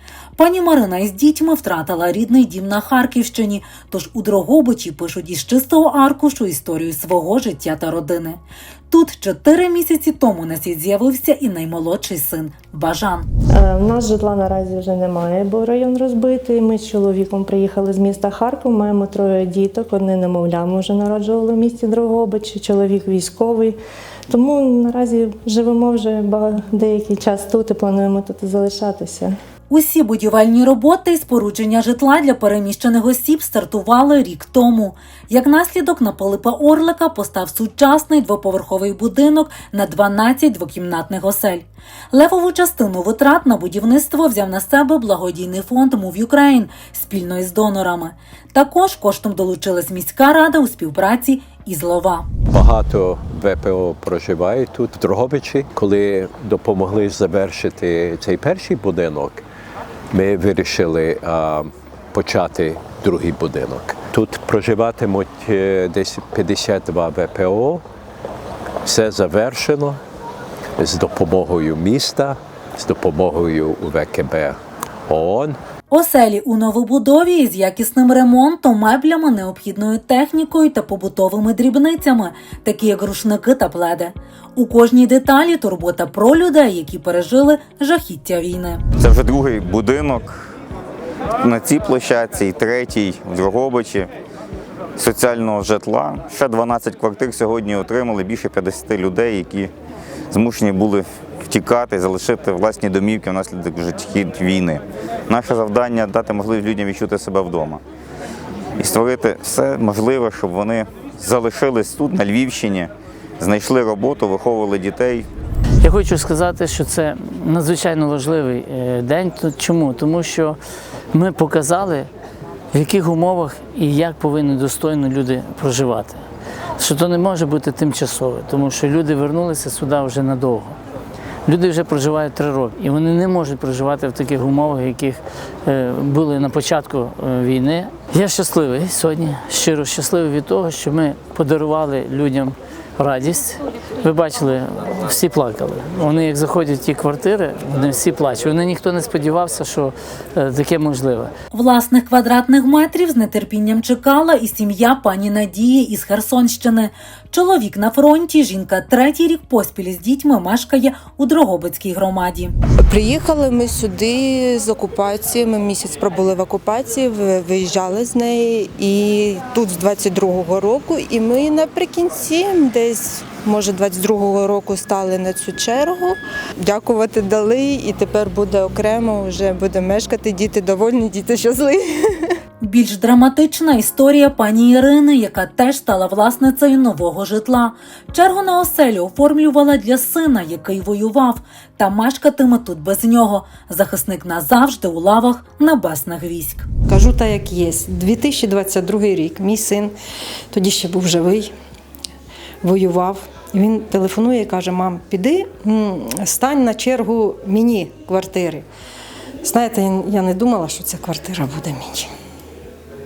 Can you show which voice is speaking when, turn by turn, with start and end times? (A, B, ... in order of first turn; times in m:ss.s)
0:00.4-0:13.3 A
0:13.5-0:23.8 B
0:24.3-0:29.3 B
0:29.7-0:52.3 A
0:52.5-0:59.4 C
1:00.1-1:07.8 C
1:08.8-1:10.0 C
1:10.8-1:14.6 C
1:15.1-1:15.6 C
1:15.9-1:28.8 A
1:29.0-1:30.5 D
1:31.4-1:34.1 D
1:35.0-1:39.7 D
1:40.3-1:47.8 D
1:48.8-1:55.3 D
1:55.8-2:00.6 E
2:01.1-2:02.1 E
2:02.7-2:06.2 E
2:06.8-2:10.8 E
2:11.5-2:31.3 E
2:31.5-2:42.5 A
2:42.9-3:02.4 F
3:02.6-3:16.7 A
3:16.9-3:19.9 G
3:20.5-3:21.5 G
3:22.6-3:28.6 G
3:29.4-3:32.1 G